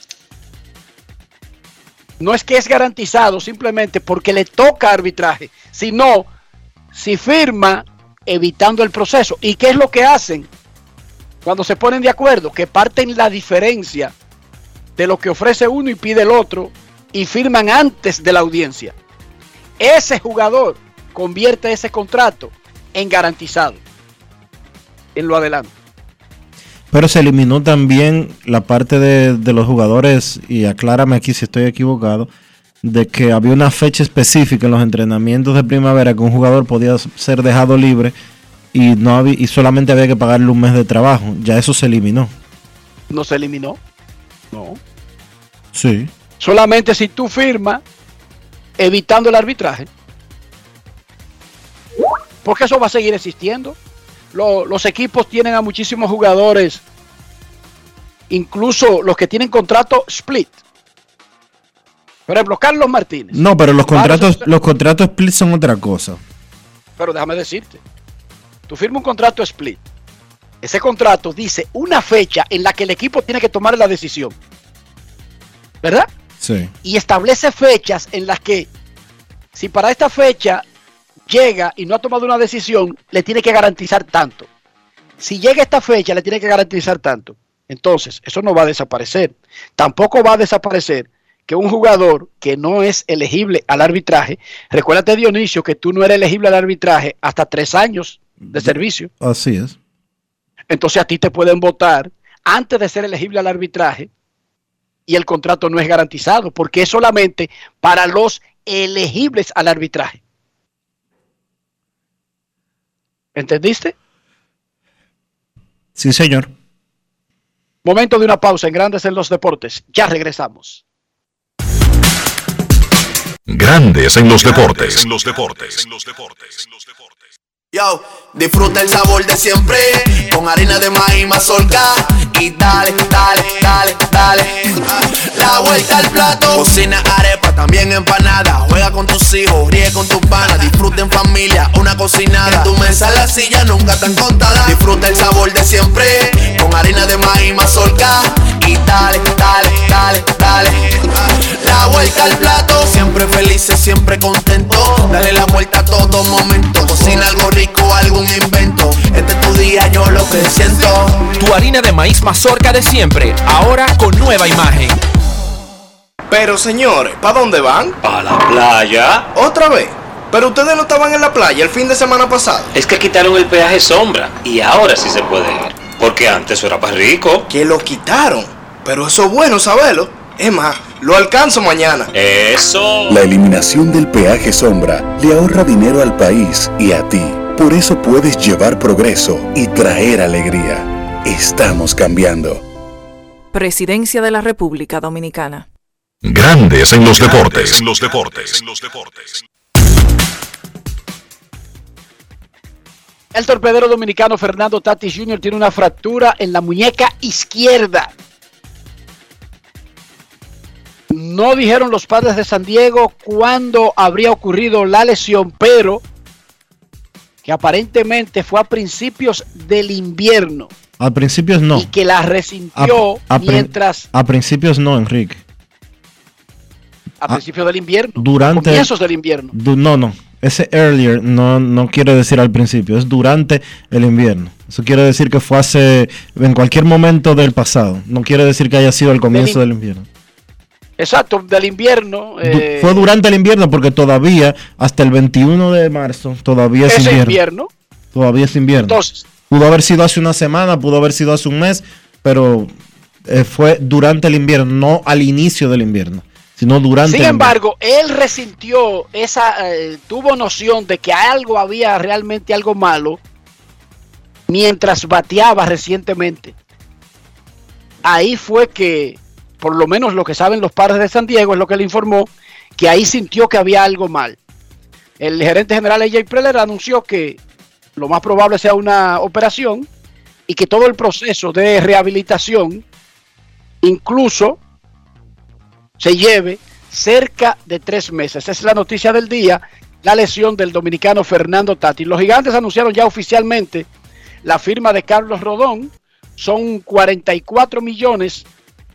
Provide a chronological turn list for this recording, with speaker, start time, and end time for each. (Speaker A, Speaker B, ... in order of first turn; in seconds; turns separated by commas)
Speaker A: 2.2-6.3, Speaker A: 6.9-10.5, Speaker A: 11.4-14.1, Speaker A: 15.0-18.9, Speaker A: 19.8-23.8, Speaker A: 25.1-25.7, Speaker B: 26.9-32.3, Speaker B: 32.8-38.1, Speaker B: 38.7-42.3, Speaker A: 43.1-43.8, Speaker A: 44.5-44.8, Speaker B: 45.7-46.1, Speaker A: 46.4-47.8, Speaker A: 48.8-49.9, Speaker A: 52.4-53.8, Speaker A: 54.3-56.8, Speaker A: 58.3-60.6, Speaker A: 62.3-64.5, Speaker B: 63.3-66.2, Speaker A: 67.0-67.8, Speaker A: 68.7-69.8, Speaker A: 70.6-74.3, Speaker A: 75.8-76.1, Speaker B: 76.4-76.7, Speaker A: 76.8-78.7, Speaker A: 79.6-80.6, Speaker A: 81.3-84.5, Speaker A: 85.2-99.1, Speaker B: 98.4-99.8, Speaker A: 100.7-104.1, Speaker A: 105.1-110.2, Speaker A: 113.3-114.0, Speaker B: 116.0-116.5, Speaker A: 117.8-120.8, Speaker C: 123.5-126.8, Speaker D: 127.7-161.2, Speaker E: 161.4-165.0, Speaker F: 166.3-168.0, Speaker G: 168.0-169.3, Speaker F: 169.3-172.7, Speaker G: 172.7-177.5, Speaker F: 177.5-182.1, Speaker G: 182.1-183.2, Speaker H: 183.1-192.6, Speaker I: 193.5-195.7, Speaker C: 196.2-199.4, Speaker A: 203.3-208.1, Speaker A: 211.1-216.0, Speaker A: 217.4-220.7, Speaker B: 221.0-221.9, Speaker A: 221.7-224.1, Speaker B: 222.8-225.4, Speaker A: 227.2-229.6, Speaker B: 228.2-228.9, Speaker B: 229.5-240.1, Speaker A: 239.3-239.6, Speaker A: 241.0-243.1, Speaker B: 242.4-247.4, Speaker A: 246.9-247.7, Speaker B: 248.1-252.7, Speaker A: 248.9-249.2, Speaker B: 253.3-257.6, Speaker A: 257.1-263.2, Speaker A: 264.5-266.6, Speaker A: 268.0-274.4, Speaker A: 275.2-277.4, Speaker A: 278.0-279.9, Speaker A: 280.5-282.8, Speaker A: 283.8-284.6, Speaker A: 286.0-293.9, Speaker A: 294.4-298.5